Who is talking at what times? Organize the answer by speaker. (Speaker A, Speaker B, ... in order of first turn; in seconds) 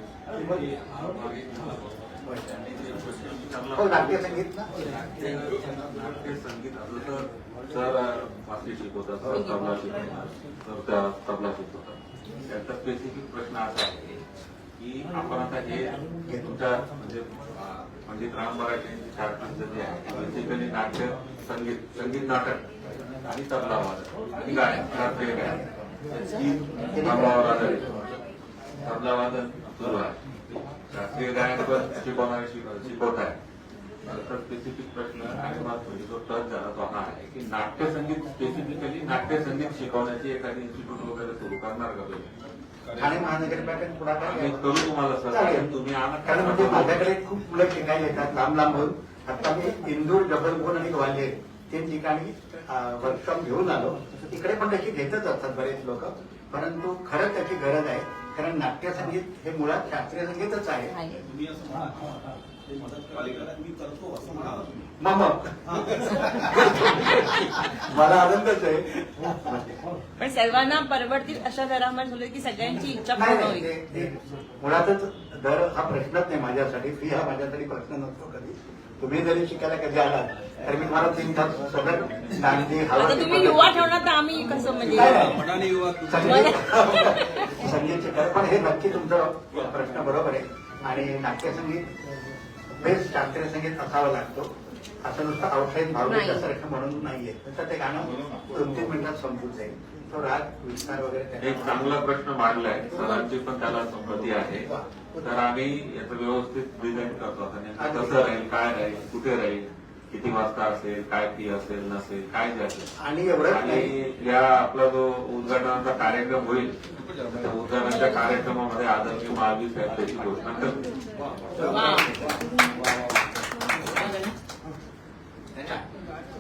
Speaker A: 0.3-0.7, 3.7-4.8, 16.3-16.5, 26.9-27.6, 43.0-45.7, 46.2-61.0, 65.0-69.8, 73.1-83.8, 84.9-91.9, 92.8-94.5, 95.0-101.9, 107.8-108.3, 113.0-113.9
Speaker B: 0.4-14.2, 14.8-22.7, 23.2-28.0, 28.8-30.2, 30.9-33.4, 34.0-42.3, 44.2-47.1, 101.4-104.7, 105.2-112.9, 113.5-116.8, 117.3-120.8
Speaker C: 9.2-9.8, 60.9-61.2, 70.2-73.8, 82.9-85.4, 86.2-87.5, 96.0-96.5, 121.6-122.2, 123.9-124.3
Speaker D: 61.1-64.9, 65.8-66.6, 85.6-86.4, 121.5-121.8